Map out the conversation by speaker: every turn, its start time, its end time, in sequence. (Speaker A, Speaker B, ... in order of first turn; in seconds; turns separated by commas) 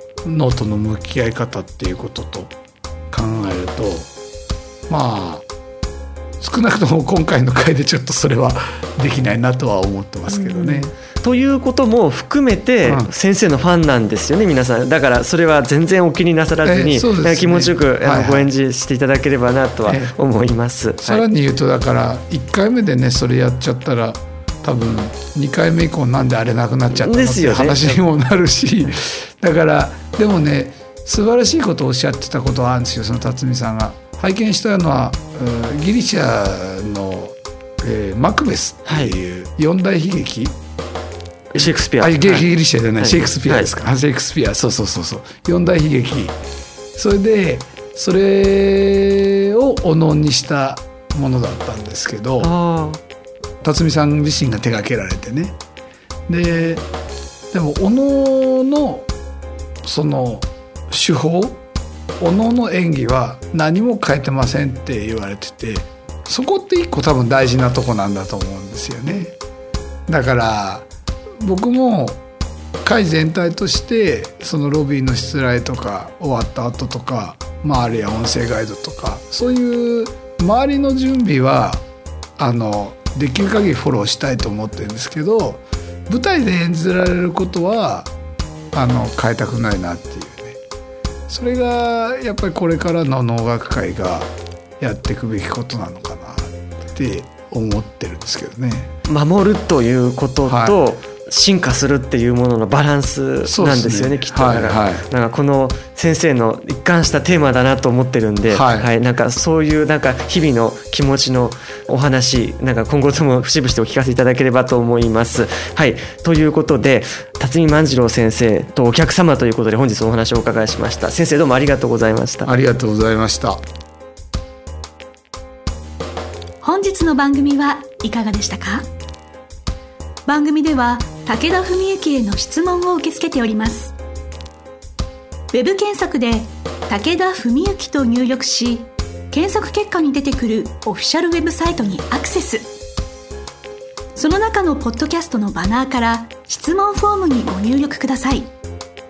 Speaker A: 0.2-2.5, Speaker A: 3.1-4.1, Speaker A: 4.9-5.5, Speaker A: 6.4-10.9, Speaker B: 10.3-21.2, Speaker A: 12.8-13.1, Speaker A: 16.6-18.5, Speaker A: 19.9-20.1, Speaker A: 21.0-40.5, Speaker B: 26.9-28.0, Speaker B: 38.9-39.2, Speaker B: 41.5-43.7, Speaker A: 41.6-46.4, Speaker A: 47.0-52.5, Speaker B: 52.4-53.0, Speaker A: 53.6-55.6, Speaker A: 56.3-56.9, Speaker A: 57.5-59.1, Speaker A: 59.8-61.6, Speaker A: 62.2-69.4, Speaker A: 70.1-70.9, Speaker A: 71.4-72.2, Speaker A: 72.8-81.8, Speaker A: 82.4-88.1, Speaker A: 88.7-90.6, Speaker A: 91.3-98.9, Speaker B: 99.1-122.5, Speaker A: 100.5-100.8, Speaker A: 103.5-105.1, Speaker A: 108.5-108.9, Speaker A: 122.5-123.6, Speaker C: 126.6-128.9, Speaker C: 130.3-133.9, Speaker C: 135.5-142.7, Speaker C: 144.1-148.5